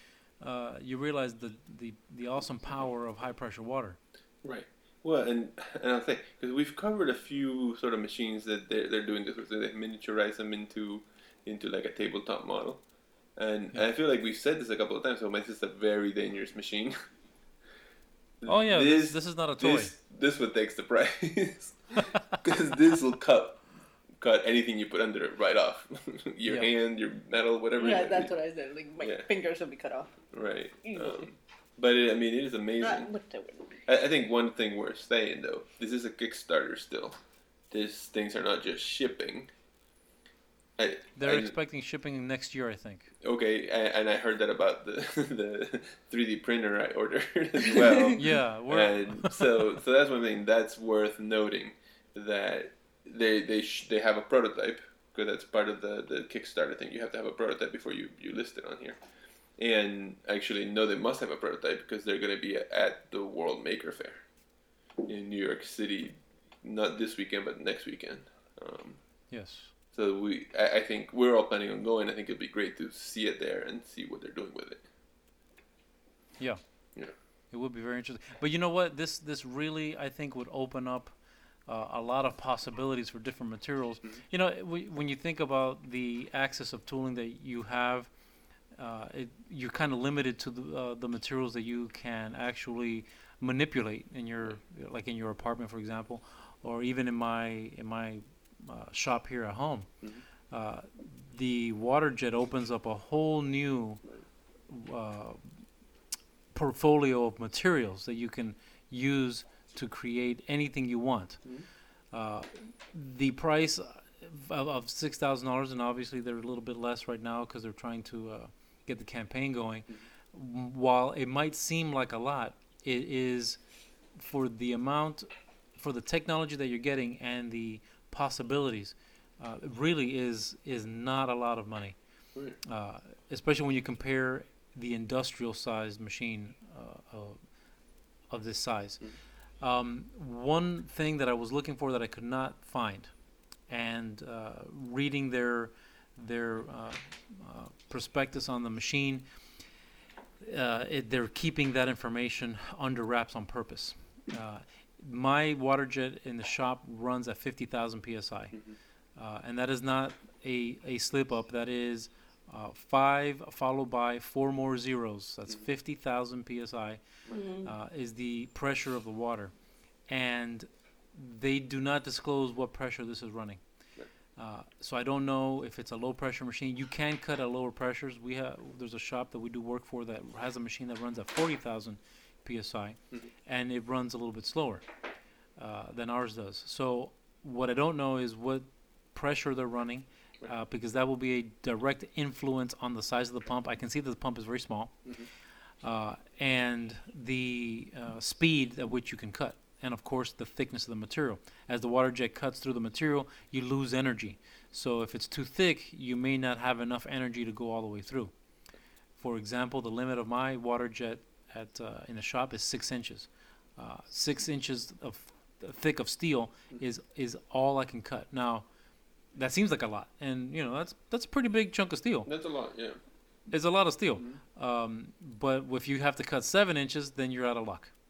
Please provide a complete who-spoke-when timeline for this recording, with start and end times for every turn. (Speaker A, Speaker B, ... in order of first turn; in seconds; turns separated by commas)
Speaker A: 0.4-4.0, Speaker B: 4.4-12.8, Speaker B: 13.4-17.0, Speaker B: 18.4-23.7, Speaker A: 18.5-19.9, Speaker B: 24.2-28.3, Speaker C: 27.8-30.2, Speaker B: 29.0-29.3, Speaker B: 30.3-33.1, Speaker C: 30.8-31.3, Speaker C: 32.8-33.8, Speaker B: 33.9-37.2, Speaker B: 37.7-39.5, Speaker B: 40.8-41.5, Speaker A: 41.2-43.1, Speaker B: 43.2-59.0, Speaker A: 48.2-49.7, Speaker B: 59.6-64.3, Speaker B: 65.0-69.3, Speaker A: 69.3-69.7, Speaker B: 69.9-74.9, Speaker A: 76.4-88.1, Speaker A: 88.8-99.9, Speaker A: 100.5-104.0, Speaker A: 104.7-105.5, Speaker A: 106.5-111.5, Speaker A: 112.1-123.6, Speaker A: 124.2-132.0, Speaker A: 132.6-137.4, Speaker A: 138.3-143.1, Speaker A: 143.7-149.2, Speaker A: 150.4-158.6, Speaker A: 159.2-167.0, Speaker C: 167.3-167.7, Speaker A: 167.6-169.5, Speaker A: 170.1-173.6, Speaker A: 174.4-184.8, Speaker A: 185.6-195.2, Speaker A: 195.8-208.3, Speaker A: 209.2-218.7, Speaker A: 219.3-222.3, Speaker B: 222.3-223.0, Speaker A: 223.5-227.9